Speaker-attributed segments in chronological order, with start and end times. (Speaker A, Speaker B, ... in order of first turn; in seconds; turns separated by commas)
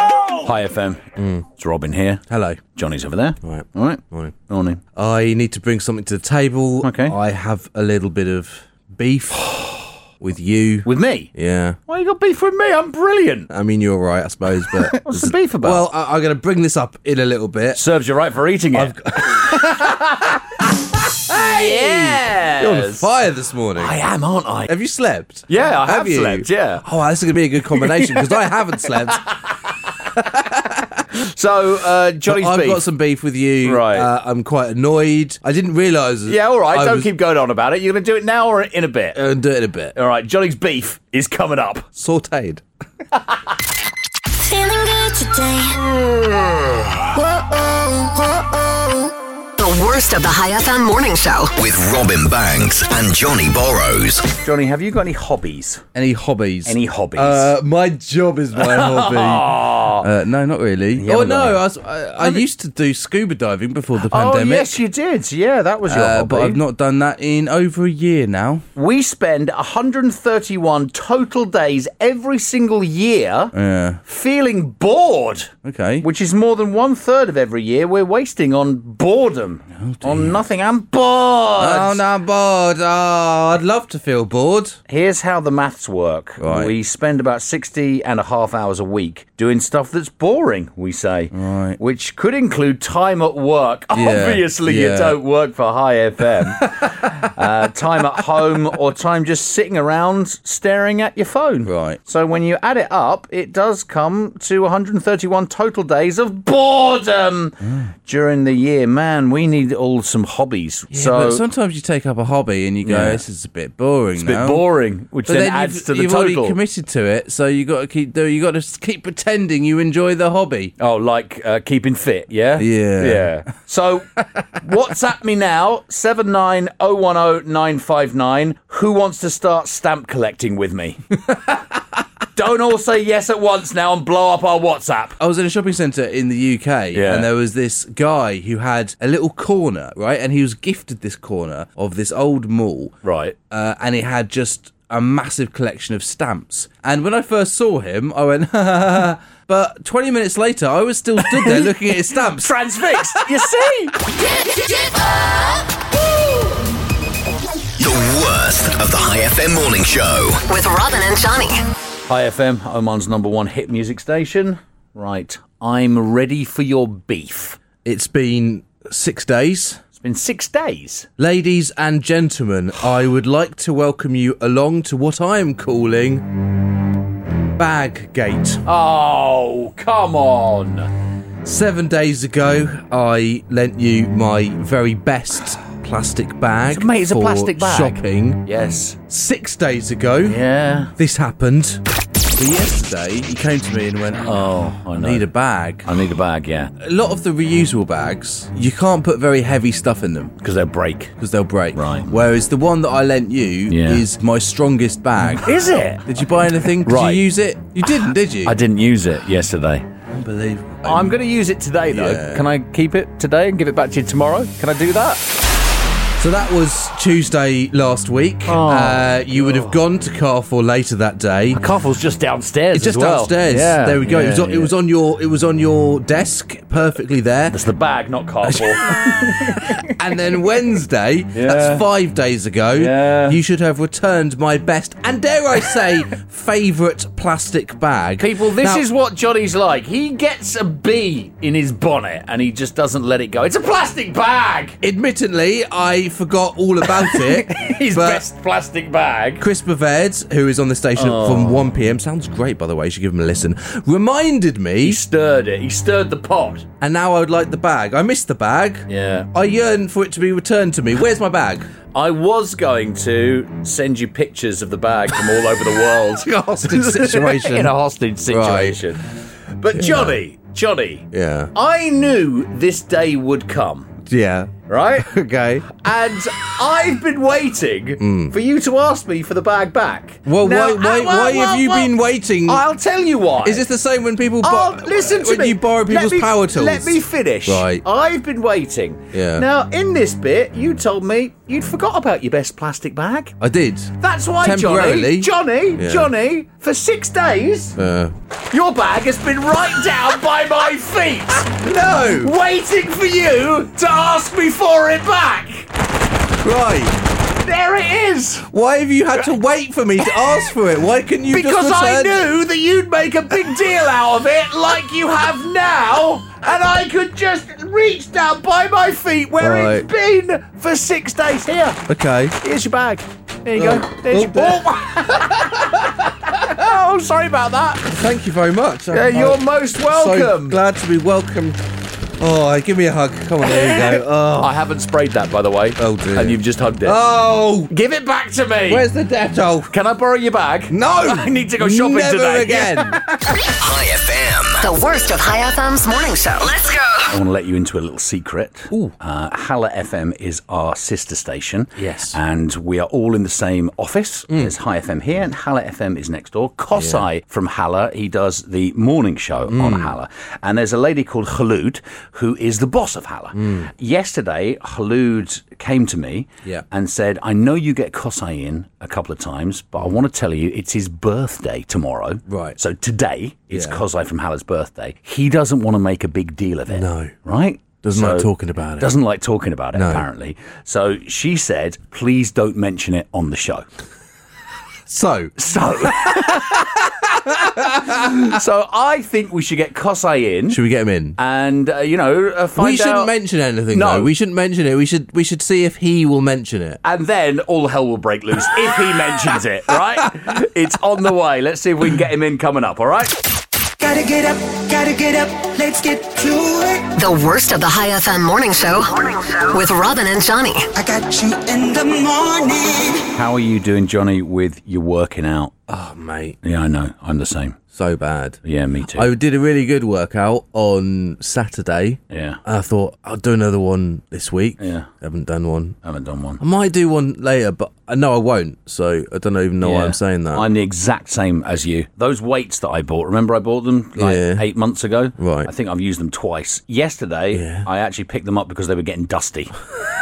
Speaker A: 0.4-2.2, Speaker B: 1.2-1.4, Speaker B: 2.3-2.6, Speaker A: 2.8-4.8, Speaker B: 3.4-4.3, Speaker B: 5.0-9.6, Speaker A: 6.8-7.2, Speaker B: 10.2-11.8, Speaker A: 10.8-11.3, Speaker A: 11.9-13.5, Speaker B: 13.5-17.8, Speaker A: 15.0-15.8, Speaker A: 17.7-20.4, Speaker B: 18.7-19.9, Speaker A: 21.3-23.1, Speaker B: 21.3-24.0, Speaker A: 23.8-24.8, Speaker B: 24.7-29.2, Speaker A: 25.5-26.9, Speaker A: 27.8-28.4, Speaker A: 29.1-29.6, Speaker B: 30.1-31.1, Speaker A: 31.1-32.9, Speaker B: 32.2-37.1, Speaker A: 33.6-34.1, Speaker A: 36.3-39.2, Speaker B: 39.1-40.0, Speaker A: 40.0-41.9, Speaker B: 42.0-42.6, Speaker C: 44.4-45.8, Speaker D: 49.6-51.5, Speaker E: 51.6-54.3, Speaker A: 54.4-55.9, Speaker B: 56.0-64.8, Speaker A: 56.7-57.5, Speaker A: 58.6-60.1, Speaker A: 61.0-61.6, Speaker A: 64.0-66.6, Speaker B: 65.9-68.7, Speaker A: 68.8-73.5, Speaker B: 73.5-74.0, Speaker A: 74.0-82.0, Speaker B: 75.6-76.1, Speaker B: 79.8-80.5, Speaker B: 81.6-84.8, Speaker A: 84.9-111.4, Speaker B: 86.4-86.8, Speaker B: 91.3-91.8, Speaker B: 93.9-95.2, Speaker B: 96.6-97.3, Speaker B: 101.7-102.0, Speaker B: 110.9-114.7, Speaker A: 112.8-113.2, Speaker A: 114.2-116.6, Speaker B: 115.2-120.7, Speaker A: 120.8-131.0, Speaker B: 122.6-123.5, Speaker A: 132.3-135.2, Speaker B: 135.2-142.9, Speaker A: 136.9-137.3, Speaker A: 143.0-143.4, Speaker B: 143.5-153.3, Speaker A: 151.2-154.0, Speaker E: 157.8-160.4, Speaker D: 160.5-161.6, Speaker A: 162.1-167.6, Speaker B: 167.8-169.8, Speaker A: 169.9-171.1, Speaker B: 171.2-176.3, Speaker B: 177.6-178.6, Speaker A: 178.7-180.9, Speaker B: 181.4-188.5, Speaker A: 186.7-189.0, Speaker B: 189.1-190.4, Speaker A: 190.2-190.9, Speaker B: 191.0-191.8, Speaker B: 192.3-196.0, Speaker A: 194.2-195.3, Speaker A: 195.8-196.7, Speaker B: 196.8-200.3, Speaker A: 200.4-201.1, Speaker B: 201.2-208.6, Speaker A: 201.8-202.1, Speaker A: 203.7-204.0, Speaker A: 205.4-206.1, Speaker A: 206.8-207.3, Speaker A: 208.4-209.8, Speaker B: 210.1-211.2, Speaker A: 210.8-215.2, Speaker B: 211.9-212.5, Speaker B: 216.2-221.6, Speaker A: 218.5-219.8, Speaker A: 221.5-224.7, Speaker B: 222.7-227.6, Speaker A: 227.5-229.7, Speaker B: 228.4-238.8, Speaker A: 231.3-231.8, Speaker A: 232.7-233.4, Speaker A: 238.2-244.8, Speaker B: 244.8-248.2, Speaker A: 246.9-249.4, Speaker B: 249.4-255.0, Speaker A: 251.0-251.7, Speaker A: 254.8-256.7, Speaker B: 256.8-261.7, Speaker A: 258.9-259.3, Speaker A: 261.9-269.0, Speaker B: 266.2-267.8, Speaker B: 268.3-268.8, Speaker A: 269.6-273.9, Speaker B: 269.8-270.2, Speaker B: 271.1-271.5, Speaker B: 274.1-275.7, Speaker A: 274.7-275.1, Speaker A: 275.7-281.9, Speaker B: 278.0-278.3, Speaker B: 280.3-282.6, Speaker A: 282.5-283.7, Speaker B: 283.4-287.8, Speaker A: 284.4-293.4, Speaker B: 289.1-289.5, Speaker B: 293.4-296.1, Speaker A: 294.0-297.8, Speaker B: 297.8-298.1, Speaker A: 298.5-301.5, Speaker B: 301.4-302.3, Speaker A: 302.2-305.7, Speaker B: 306.4-307.0, Speaker A: 307.4-308.5, Speaker B: 308.5-312.3, Speaker A: 311.3-321.8, Speaker B: 319.4-319.9, Speaker B: 321.9-322.4, Speaker A: 322.4-325.4, Speaker B: 323.6-325.9, Speaker A: 326.3-327.9, Speaker B: 327.9-331.6, Speaker A: 328.9-330.6, Speaker B: 332.2-334.5, Speaker A: 333.4-337.0, Speaker B: 335.8-337.7, Speaker A: 337.7-338.9, Speaker B: 338.7-339.7, Speaker A: 339.7-342.9, Speaker B: 340.7-343.3, Speaker E: 343.6-344.7, Speaker D: 344.6-346.9, Speaker A: 347.1-383.7, Speaker B: 351.8-352.2, Speaker B: 356.8-357.1, Speaker B: 359.5-359.9, Speaker B: 363.4-363.7, Speaker B: 372.3-372.6, Speaker B: 373.5-373.8, Speaker B: 376.7-377.1, Speaker B: 377.8-379.0, Speaker B: 379.7-380.1, Speaker B: 384.9-388.3, Speaker A: 385.4-386.6, Speaker A: 387.8-390.6, Speaker B: 390.5-391.2, Speaker A: 391.2-393.1, Speaker B: 392.6-396.8, Speaker A: 393.7-394.1, Speaker A: 396.8-403.2, Speaker C: 403.8-406.9, Speaker D: 407.0-410.7, Speaker C: 410.8-413.1, Speaker A: 413.1-415.5, Speaker B: 415.7-416.4, Speaker A: 416.4-417.6, Speaker B: 417.7-418.4, Speaker A: 418.4-419.1, Speaker B: 418.9-425.8, Speaker A: 422.1-422.4, Speaker A: 424.6-424.9, Speaker A: 425.8-426.4, Speaker B: 426.4-430.5, Speaker A: 429.6-439.6, Speaker B: 434.0-434.4, Speaker B: 435.2-435.5, Speaker B: 437.3-437.7